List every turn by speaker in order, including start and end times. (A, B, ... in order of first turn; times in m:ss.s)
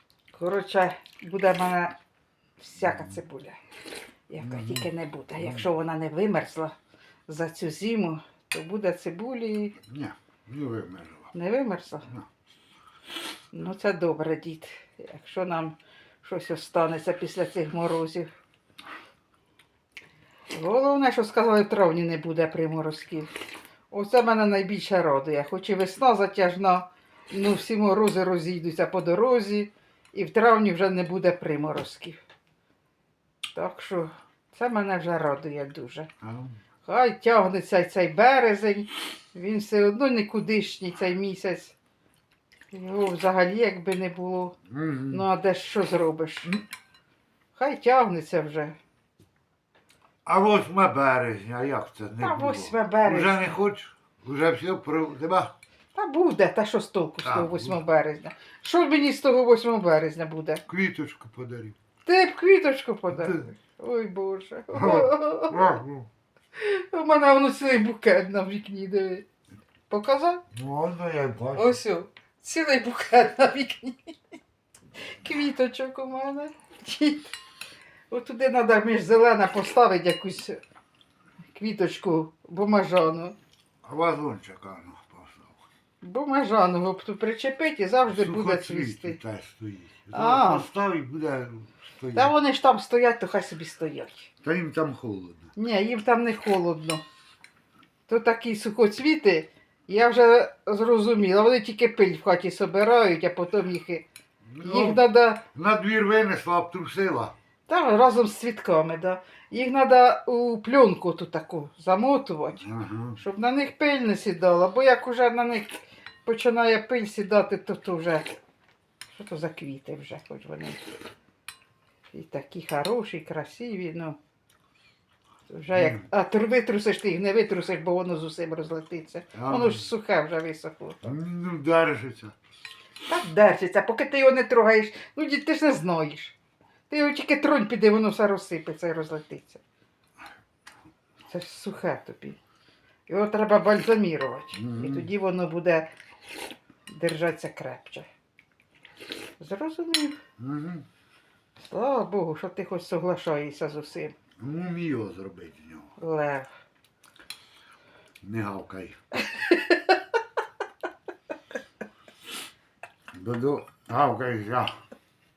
0:00.3-0:01.9 A
0:02.6-0:03.6 A
0:02.8-0:03.1 B
0:04.3-0:06.8 A
0:04.4-0:04.9 B
0:05.4-0:05.7 B
0:07.3-0:09.8 A
0:09.9-0:11.3 B
0:11.3-0:12.1 A
0:13.5-0:18.3 A
0:20.5-0:23.3 A
0:23.9-0:32.2 A
0:33.5-0:36.1 A
0:36.2-0:36.6 B
0:36.8-0:41.8 A
0:42.7-0:44.6 A
0:44.7-0:45.3 B
0:45.1-0:46.5 A
0:47.6-0:48.8 A
0:50.2-0:55.5 B
0:52.2-0:53.6 A
0:55.9-1:00.6 A
0:57.2-0:57.8 B
1:00.7-1:01.8 B
1:02.0-1:05.6 A
1:03.1-1:03.4 B
1:04.7-1:06.1 B
1:06.6-1:09.2 A
1:09.9-1:10.4 A
1:10.5-1:11.8 B
1:11.6-1:14.2 A
1:15.1-1:17.3 A
1:18.1-1:20.6 A
1:21.5-1:23.4 A
1:23.8-1:25.6 B
1:26.0-1:29.2 A
1:28.1-1:32.3 B
1:30.1-1:30.7 A
1:32.2-1:34.3 A
1:34.4-1:35.5 B
1:35.6-1:37.0 A
1:38.1-1:44.0 A
1:44.5-1:47.3 B
1:44.6-1:45.4 A
1:47.7-1:52.6 A
1:52.6-1:53.2 B
1:53.2-1:58.4 A
1:59.1-2:00.8 A
2:02.1-2:04.2 A
2:05.5-2:11.1 A
2:05.7-2:06.0 B
2:09.4-2:09.8 B
2:11.0-2:12.4 B
2:13.1-2:16.4 A
2:16.9-2:19.6 A
2:21.3-2:22.4 A
2:23.1-2:25.9 A
2:24.5-2:25.1 B
2:26.9-2:28.1 A
2:29.4-2:30.2 A
2:30.4-2:30.8 B
2:31.6-2:34.1 A
2:34.4-2:35.9 B
2:36.0-2:36.5 A
2:38.2-2:39.0 B
2:39.3-2:40.0 A
2:43.1-2:44.7 B